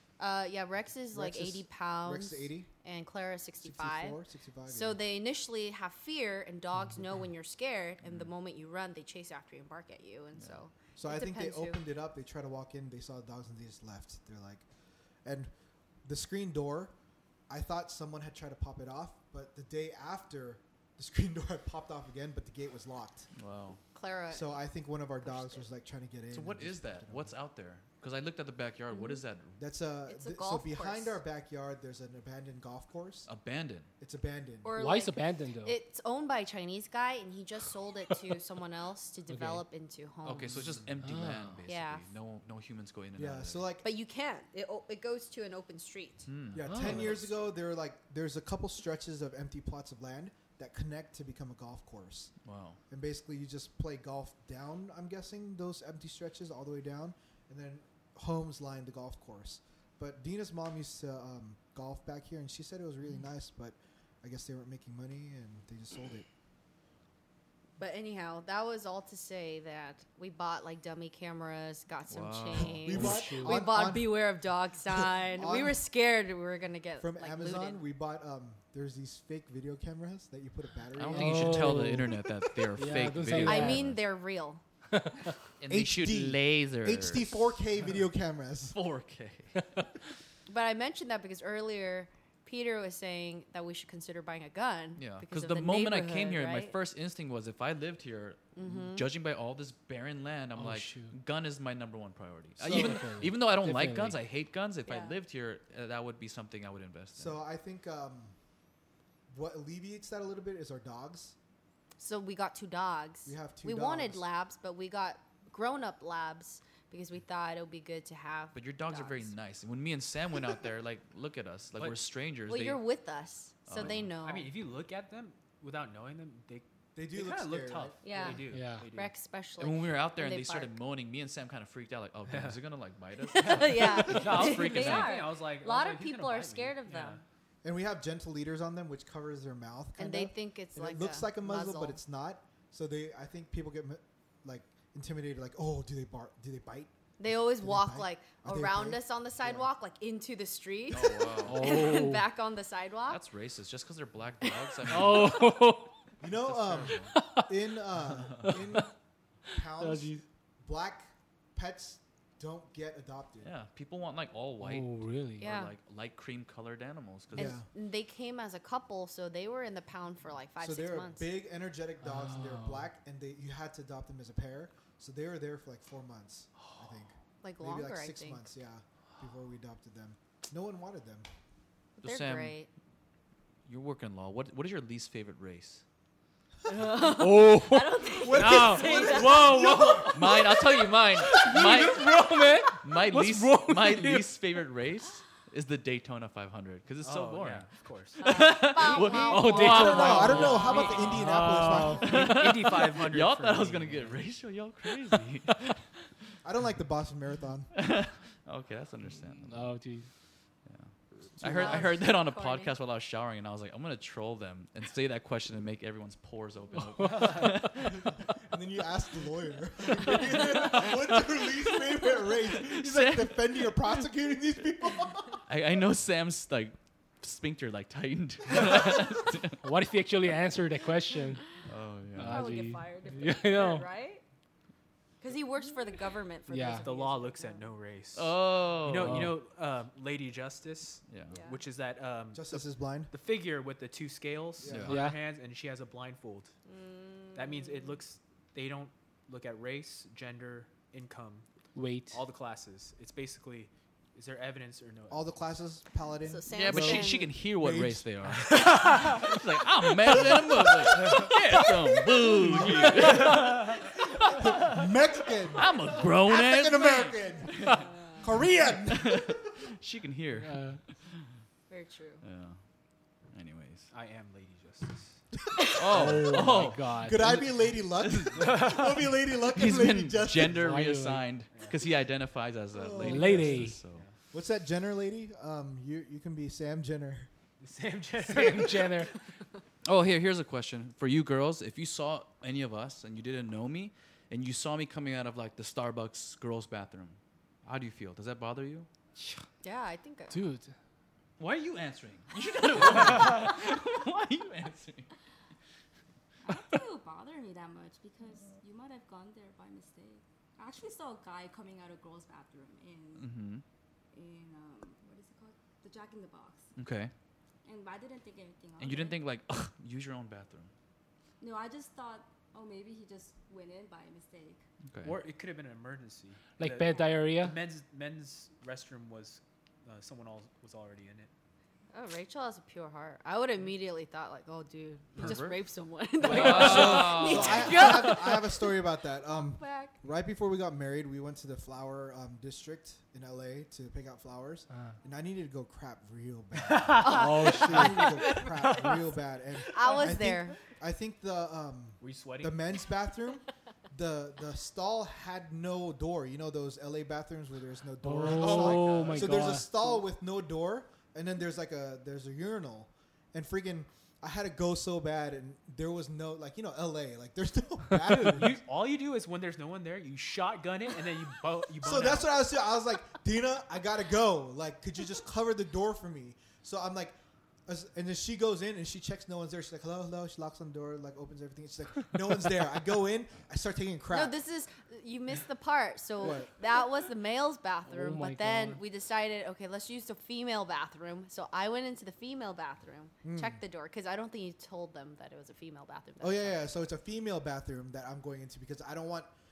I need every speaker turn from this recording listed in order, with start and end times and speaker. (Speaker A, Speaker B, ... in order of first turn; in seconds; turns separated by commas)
Speaker A: 0.2-4.2, Speaker B: 1.1-2.7, Speaker B: 3.6-5.0, Speaker A: 4.7-11.8, Speaker C: 8.0-8.3, Speaker C: 10.3-10.6, Speaker B: 10.9-14.6, Speaker B: 15.2-15.5, Speaker B: 16.0-16.9, Speaker B: 17.5-23.3, Speaker C: 23.4-23.8, Speaker A: 23.9-24.5, Speaker B: 24.3-27.3, Speaker A: 25.2-25.6, Speaker C: 26.3-29.6, Speaker A: 28.9-29.2, Speaker B: 29.6-33.3, Speaker A: 30.1-31.2, Speaker C: 33.2-33.9, Speaker B: 34.0-34.7, Speaker A: 34.6-40.7, Speaker D: 34.8-35.8, Speaker D: 39.3-39.6, Speaker C: 40.2-43.7, Speaker E: 40.5-40.9, Speaker D: 41.0-41.6, Speaker A: 41.7-42.1, Speaker B: 43.1-43.9, Speaker A: 43.8-46.3, Speaker C: 46.2-46.7, Speaker B: 46.5-52.3, Speaker D: 46.6-47.1, Speaker A: 46.9-47.3, Speaker C: 52.4-52.8, Speaker B: 52.9-66.3, Speaker A: 67.8-77.8, Speaker C: 72.1-73.0, Speaker B: 72.5-74.3, Speaker D: 72.9-73.6, Speaker B: 74.8-75.8, Speaker B: 77.0-81.9, Speaker C: 80.9-84.0, Speaker D: 81.1-82.2, Speaker D: 82.7-83.8, Speaker A: 83.4-84.6, Speaker D: 84.9-85.3, Speaker C: 85.6-87.6, Speaker B: 85.7-88.8, Speaker C: 88.7-89.8, Speaker A: 90.5-96.7, Speaker C: 95.0-107.4, Speaker A: 98.5-99.0, Speaker D: 100.5-101.1, Speaker B: 102.6-103.1, Speaker D: 102.7-104.2, Speaker A: 104.9-105.2, Speaker B: 107.2-108.3, Speaker B: 109.3-111.4, Speaker A: 112.0-119.3, Speaker B: 113.2-114.2, Speaker C: 118.5-122.8, Speaker E: 121.8-122.0, Speaker A: 122.5-124.5, Speaker C: 123.7-124.1, Speaker E: 123.8-129.1, Speaker B: 127.0-128.3, Speaker A: 128.0-130.8, Speaker D: 128.5-128.9, Speaker C: 129.6-135.2, Speaker E: 132.3-132.6, Speaker A: 133.3-137.2, Speaker E: 133.4-137.2, Speaker B: 137.6-149.7, Speaker A: 140.0-142.0, Speaker A: 147.2-153.2, Speaker C: 150.9-151.9, Speaker D: 151.4-152.3, Speaker C: 153.1-155.5, Speaker D: 154.9-155.9, Speaker B: 156.2-158.9, Speaker C: 156.3-157.1, Speaker D: 157.1-157.5, Speaker D: 158.4-158.9, Speaker B: 159.5-163.5, Speaker D: 159.7-160.2, Speaker C: 163.4-167.6, Speaker D: 164.6-165.5, Speaker A: 165.4-165.7, Speaker B: 167.3-167.7, Speaker A: 167.3-171.3, Speaker B: 170.6-181.3, Speaker D: 172.0-172.9, Speaker A: 177.4-178.4, Speaker C: 182.0-182.6, Speaker A: 182.0-182.7, Speaker C: 183.7-185.8, Speaker A: 186.7-189.7, Speaker D: 187.0-190.6, Speaker B: 188.2-190.2, Speaker C: 190.1-192.3, Speaker D: 191.1-194.3, Speaker C: 192.8-205.8, Speaker E: 197.0-199.2, Speaker A: 198.2-199.6, Speaker D: 199.2-202.3, Speaker B: 199.5-202.2, Speaker E: 200.2-200.9, Speaker E: 202.0-204.2, Speaker D: 205.5-205.7, Speaker B: 206.4-207.7, Speaker C: 207.7-209.7, Speaker D: 209.5-210.1, Speaker C: 210.7-218.1, Speaker B: 211.4-212.0, Speaker A: 211.4-212.7, Speaker D: 216.7-217.7, Speaker E: 217.0-217.5, Speaker B: 217.9-225.4, Speaker C: 220.1-221.1, Speaker C: 222.0-223.8, Speaker C: 225.3-229.6, Speaker D: 229.6-231.4, Speaker C: 231.7-232.4, Speaker D: 232.1-233.9, Speaker A: 232.2-234.2, Speaker A: 235.2-237.7, Speaker D: 236.5-236.8, Speaker E: 236.8-246.5, Speaker C: 238.1-239.3, Speaker D: 239.0-239.4, Speaker C: 241.1-241.3, Speaker A: 241.3-241.6, Speaker B: 242.3-243.1, Speaker B: 244.6-244.9, Speaker C: 244.7-245.0, Speaker D: 244.9-245.2, Speaker A: 246.7-247.9, Speaker E: 247.3-251.4, Speaker D: 251.7-252.2, Speaker E: 252.1-255.5, Speaker B: 255.1-258.6, Speaker A: 256.2-257.4, Speaker C: 256.5-264.6, Speaker E: 258.6-259.2, Speaker B: 260.0-269.4, Speaker E: 260.9-261.3, Speaker E: 262.6-263.8, Speaker C: 265.5-267.9, Speaker A: 267.8-268.1, Speaker C: 268.8-271.1, Speaker D: 270.4-270.8, Speaker A: 271.7-272.2, Speaker C: 272.2-272.6, Speaker C: 273.3-273.9, Speaker E: 273.9-275.2, Speaker C: 275.7-278.6, Speaker B: 275.9-280.7, Speaker D: 275.9-277.4, Speaker E: 278.4-278.9, Speaker C: 279.5-284.0, Speaker D: 280.5-281.2, Speaker E: 281.5-281.8, Speaker B: 282.7-283.5, Speaker D: 283.0-283.8, Speaker E: 283.2-284.1, Speaker B: 284.3-287.3, Speaker E: 287.6-289.1, Speaker D: 288.2-289.1, Speaker C: 289.8-298.9, Speaker A: 299.6-300.4, Speaker D: 300.3-300.7, Speaker C: 301.4-305.1, Speaker F: 306.4-313.3, Speaker C: 313.1-313.6, Speaker F: 314.1-316.7, Speaker C: 316.8-317.1, Speaker F: 317.6-319.2, Speaker C: 318.8-320.7, Speaker F: 321.4-324.6, Speaker C: 324.9-325.2, Speaker E: 325.0-331.3, Speaker D: 326.6-327.6, Speaker A: 331.9-338.8, Speaker C: 335.1-335.6, Speaker C: 336.2-338.1, Speaker B: 336.2-368.6, Speaker A: 339.6-339.9, Speaker E: 346.6-349.0, Speaker A: 347.0-348.8, Speaker D: 347.5-347.9, Speaker A: 349.7-350.6, Speaker E: 352.0-352.7, Speaker D: 358.0-359.7, Speaker E: 358.2-359.4, Speaker E: 368.0-372.3, Speaker B: 371.8-384.4, Speaker A: 384.1-396.6, Speaker B: 386.2-386.5, Speaker D: 387.9-388.8, Speaker B: 393.2-393.6, Speaker B: 396.2-399.3